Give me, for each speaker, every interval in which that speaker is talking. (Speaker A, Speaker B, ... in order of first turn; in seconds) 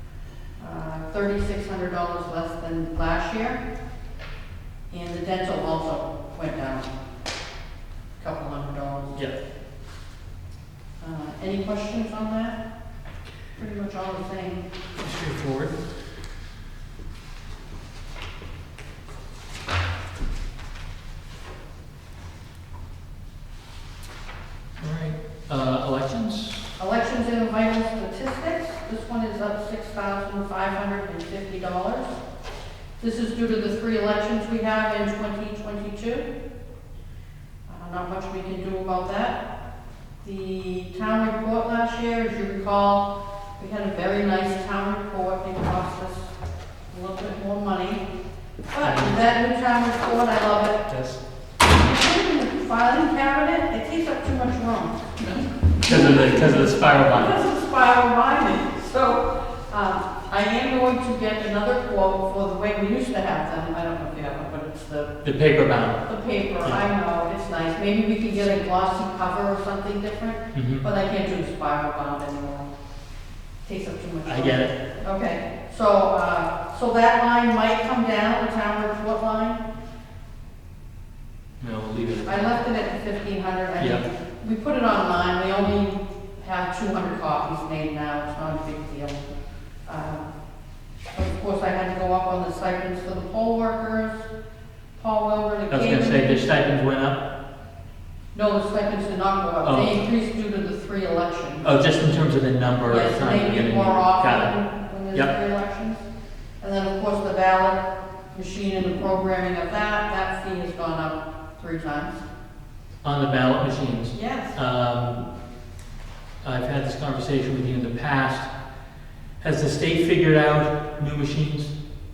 Speaker A: 0.6-3.6, 4.9-6.9, 8.2-9.3, 11.0-12.6, 13.5-14.7, 26.8-32.2, 33.0-36.3, 37.7-39.4, 40.2-46.3, 46.9-48.0, 48.7-50.9, 51.6-55.2, 55.8-65.2, 66.0-72.7, 73.6-79.6, 82.2-89.2, 89.8-90.3, 91.1-94.3, 94.9-96.5, 98.3-101.7, 102.8-106.0, 106.6-107.8, 108.3-112.2, 114.1-114.5
Speaker B: 15.0-15.8, 24.8-26.7, 48.8-49.2, 50.9-51.2, 55.8-57.3, 65.2-66.1, 70.5-70.8, 74.2-74.7, 81.6-82.6, 83.8-84.0, 95.7-97.2, 99.6-100.0, 101.6-104.5, 113.0-115.2, 116.4-118.5, 119.4-121.7